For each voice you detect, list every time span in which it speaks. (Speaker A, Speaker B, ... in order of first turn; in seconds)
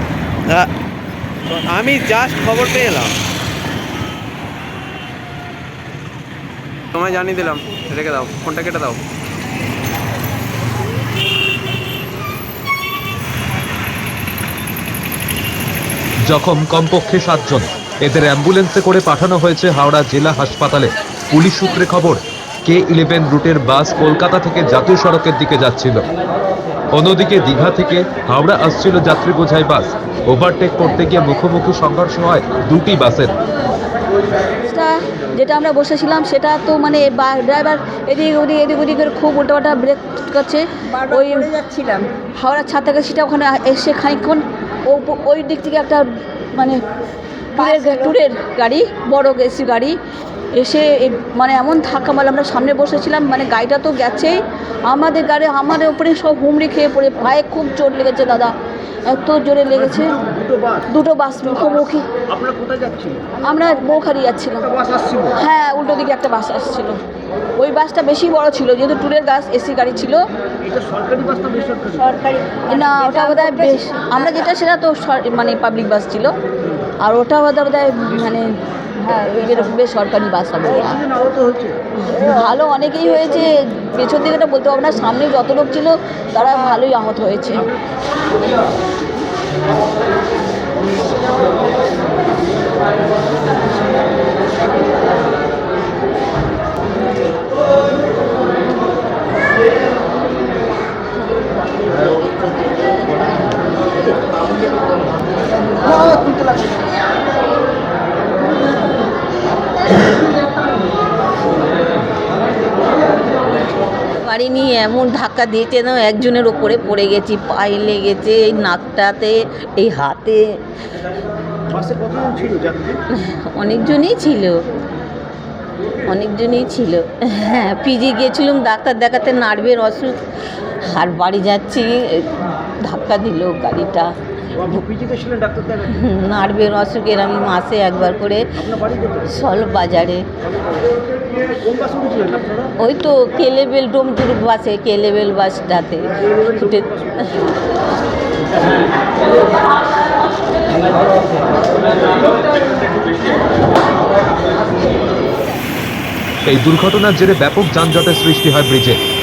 Speaker A: 1.5-3.1, 6.9-9.0
Speaker B: 16.3-26.1, 26.9-33.3, 156.5-159.0
Speaker C: 34.7-41.5, 42.3-46.8, 47.6-50.0, 50.6-60.2, 60.9-62.1, 63.4-64.8, 65.3-67.0, 67.6-70.2, 72.7-76.4, 77.0-81.0, 82.0-87.7
Speaker D: 41.0-42.1, 47.6-47.9, 71.9-72.6, 73.3-73.8, 114.2-120.6, 123.1-124.5, 126.1-130.2, 130.8-134.1, 135.9-140.3, 142.8-147.4
Speaker E: 60.3-60.8, 62.3-63.3, 64.8-65.2, 70.6-71.9, 81.1-81.8, 121.7-123.0, 135.1-135.7, 141.6-142.6